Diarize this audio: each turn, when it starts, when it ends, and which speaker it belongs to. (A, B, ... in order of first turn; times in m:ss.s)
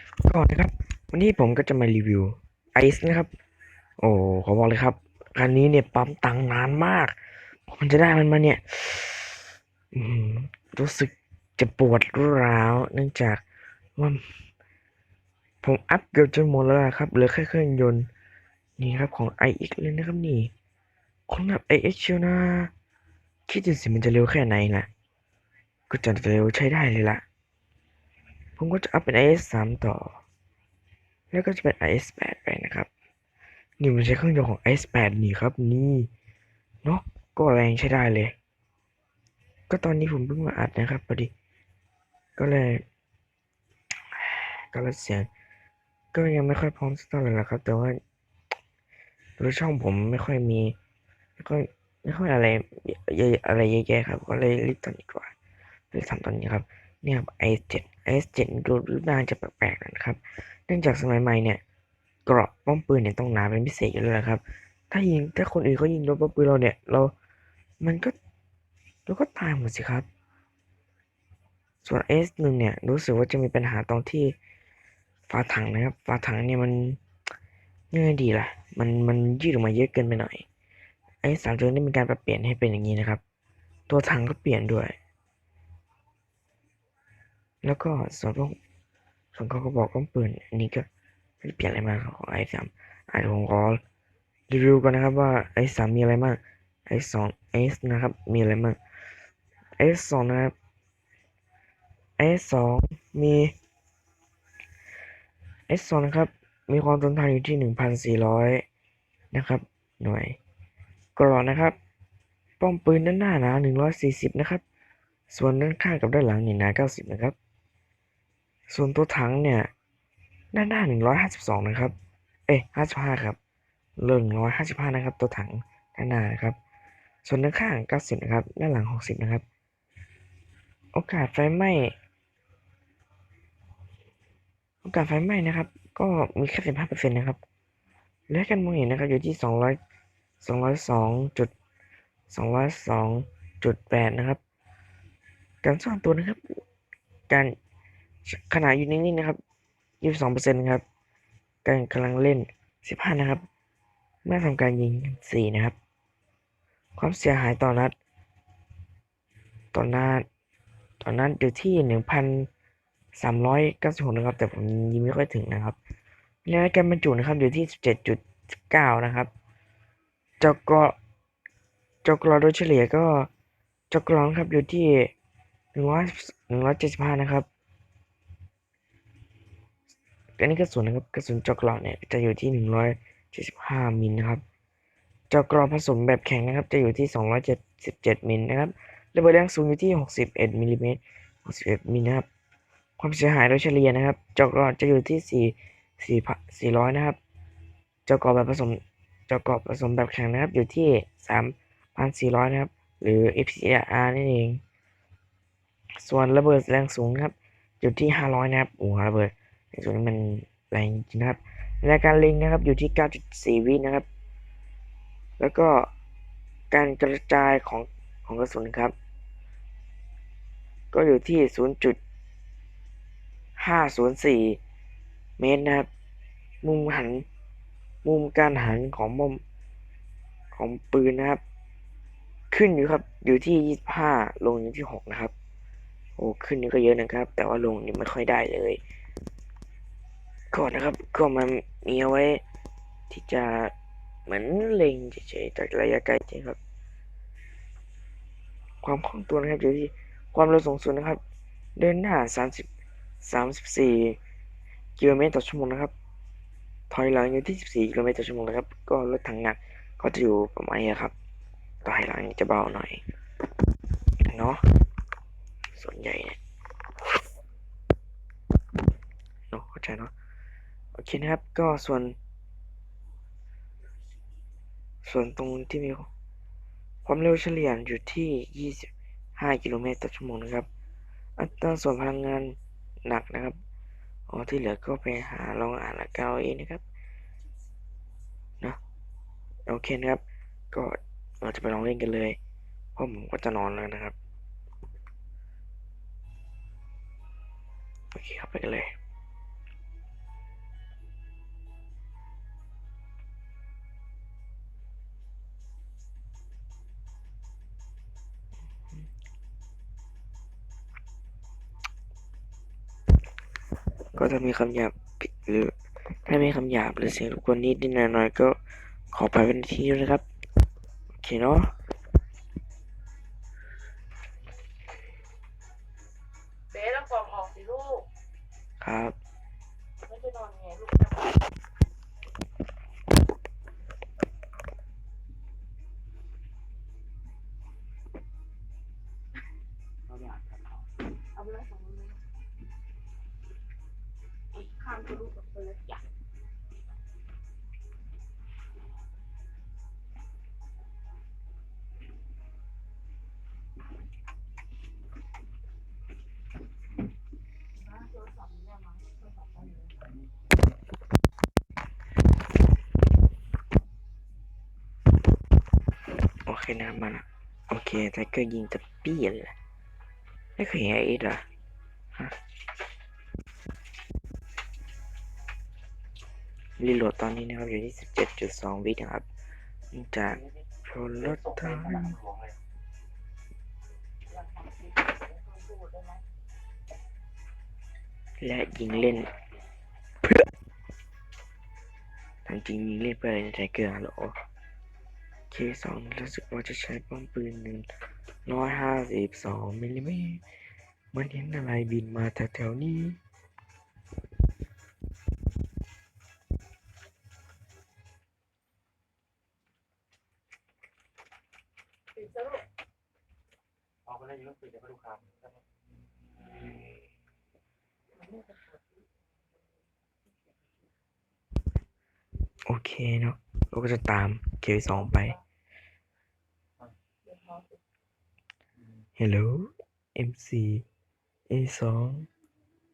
0:00.2-0:03.3 A
0:04.0-0:07.1 A
0:07.7-0:09.4 A
0:09.9-0:13.4 A
0:14.0-0:14.2 A
0:15.6-0:18.1 A
0:18.8-0:20.5 A
0:21.3-0:22.7 A
0:23.5-0:24.9 A
0:25.9-0:27.2 A
0:28.6-0:30.2 A
0:31.3-0:32.9 A
0:33.8-0:36.1 A
0:36.8-0:38.3 A
0:39.7-0:41.3 A
0:42.4-0:42.8 A
0:44.2-0:45.3 A
0:46.1-0:48.0 A
0:49.4-0:50.7 A
0:51.4-0:55.3 A
0:55.9-1:01.6 A
1:02.2-1:07.1 A
1:07.8-1:08.1 A
1:09.0-1:10.1 A
1:11.8-1:14.4 A
1:15.3-1:17.0 A
1:17.9-1:20.4 A
1:21.2-1:23.2 A
1:23.9-1:25.0 A
1:27.6-1:28.6 A
1:29.3-1:30.9 A
1:31.4-1:33.8 A
1:34.5-1:38.8 A
1:39.8-1:40.5 A
1:42.2-1:43.5 A
1:45.7-1:48.6 A
1:49.3-1:50.4 A
1:51.2-1:51.8 A
1:52.6-1:54.6 A
1:55.3-1:57.4 A
1:58.7-1:59.7 A
2:00.5-2:01.9 A
2:02.5-2:03.4 A
2:04.0-2:06.6 A
2:07.2-2:09.4 A
2:10.9-2:11.9 A
2:14.8-2:17.4 A
2:18.3-2:19.8 A
2:20.4-2:21.5 A
2:22.3-2:24.4 A
2:25.6-2:26.4 A
2:28.3-2:29.4 A
2:30.0-2:30.8 A
2:31.6-2:33.4 A
2:34.2-2:35.8 A
2:37.0-2:38.0 A
2:39.7-2:40.2 A
2:41.0-2:42.5 A
2:43.2-2:45.8 A
2:46.4-2:49.3 A
2:50.4-2:51.0 A
2:52.0-2:53.3 A
2:53.9-2:55.1 A
2:55.7-2:57.5 A
3:00.4-3:04.4 A
3:05.3-3:12.3 A
3:13.0-3:17.2 A
3:18.0-3:24.6 A
3:26.0-3:34.0 A
3:35.4-3:35.9 A
3:36.7-3:38.9 A
3:40.9-3:42.0 A
3:43.6-3:44.6 A
3:45.4-3:45.9 A
3:46.6-3:47.2 A
3:48.0-3:49.4 A
3:50.5-3:51.4 A
3:52.5-3:55.3 A
3:56.2-3:58.8 A
4:00.5-4:02.4 A
4:03.1-4:03.7 A
4:04.3-4:06.6 A
4:08.8-4:11.2 A
4:11.8-4:12.7 A
4:13.2-4:14.2 A
4:15.0-4:15.9 A
4:16.9-4:21.1 A
4:21.8-4:23.0 A
4:24.2-4:24.6 A
4:25.7-4:26.4 A
4:29.5-4:30.1 A
4:31.0-4:32.2 A
4:35.0-4:36.1 A
4:37.0-4:40.7 A
4:41.4-4:43.6 A
4:44.3-4:46.8 A
4:49.7-4:52.4 A
4:53.0-4:54.2 A
4:58.1-4:58.9 A
5:14.1-5:15.7 A
5:16.2-5:18.6 A
5:19.1-5:20.2 A
5:21.2-5:21.7 A
5:26.7-5:28.1 B
5:28.8-5:29.2 A
5:30.0-5:31.5 B
5:40.0-5:40.9 C
5:41.3-5:42.2 B
5:44.5-5:46.0 B
5:57.7-6:00.1 B
6:06.4-6:09.5 A
6:10.6-6:11.4 A
6:16.8-6:19.2 A
6:19.9-6:22.1 A
6:21.1-6:22.6 C
6:24.3-6:26.2 B
6:28.4-6:29.3 A
6:29.1-6:29.4 C
6:32.4-6:34.3 A
6:35.5-6:37.9 A
6:38.4-6:40.4 A
6:41.1-6:43.2 A
6:52.1-6:52.6 B
6:54.0-6:55.6 C
6:58.1-6:59.0 B
7:02.7-7:05.4 A
7:07.2-7:07.8 B
7:09.2-7:10.8 A
7:11.5-7:12.3 A